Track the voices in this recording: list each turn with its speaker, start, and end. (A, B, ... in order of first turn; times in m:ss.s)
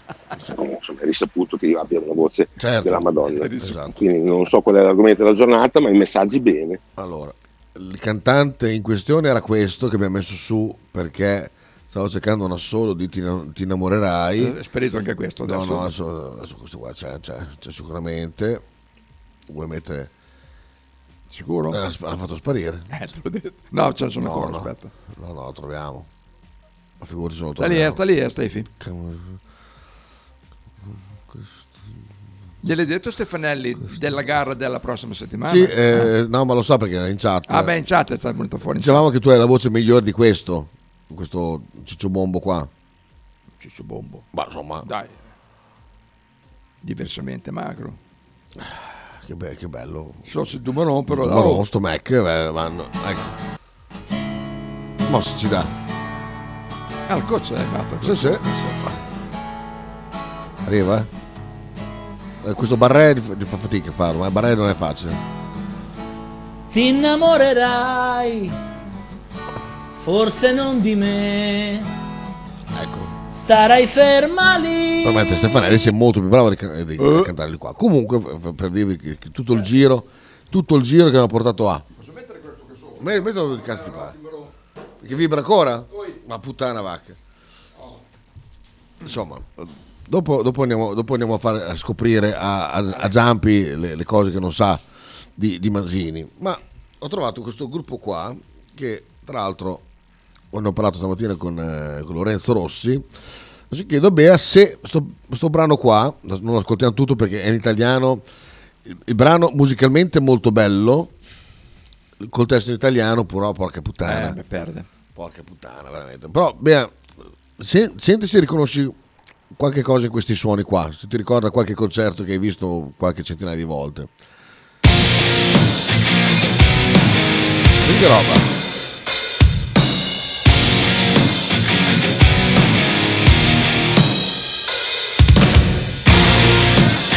0:00.4-0:06.8 A
0:02.6-0:04.0 B
0:03.3-0:03.8 C
0:07.0-0:14.6 B
0:14.4-0:15.9 C
0:15.4-0:18.6 B
0:19.5-0:20.1 B
0:21.3-0:21.8 C
0:21.7-0:22.9 B
0:22.9-0:24.9 C
0:24.2-0:26.1 B
0:27.0-0:28.0 B
0:27.6-0:28.7 C
0:28.8-0:29.4 B
0:31.3-0:31.7 B
0:32.6-0:36.1 C
0:35.4-0:37.7 B
0:37.5-0:39.0 C
0:38.8-0:42.7 B
0:43.6-0:44.2 C
0:44.3-0:44.9 B
0:44.8-0:45.2 C
0:46.8-0:48.0 C
0:48.6-0:50.3 B
0:50.2-0:51.6 C
0:51.1-0:53.3 B
0:55.0-0:55.7 B
0:57.1-0:58.9 C
0:58.0-0:58.4 B
1:00.6-1:01.1 B
1:02.4-1:05.2 B
1:06.7-1:08.6 D
1:09.9-1:11.9 D
1:12.7-1:13.1 B
1:13.3-1:15.3 D
1:15.0-1:21.8 B
1:17.0-1:17.3 C
1:21.9-1:24.5 C
1:23.0-1:24.1 B
1:25.0-1:27.2 B
1:25.9-1:26.2 C
1:27.8-1:28.0 C
1:29.0-1:34.8 B
1:35.4-1:39.8 B
1:40.5-1:43.0 B
1:43.7-1:48.2 B
1:48.8-1:51.1 B
1:52.2-1:54.4 B
1:54.0-1:54.9 C
1:55.1-1:57.0 B
1:57.6-1:59.0 B
1:59.5-2:04.1 B
2:07.8-2:08.5 B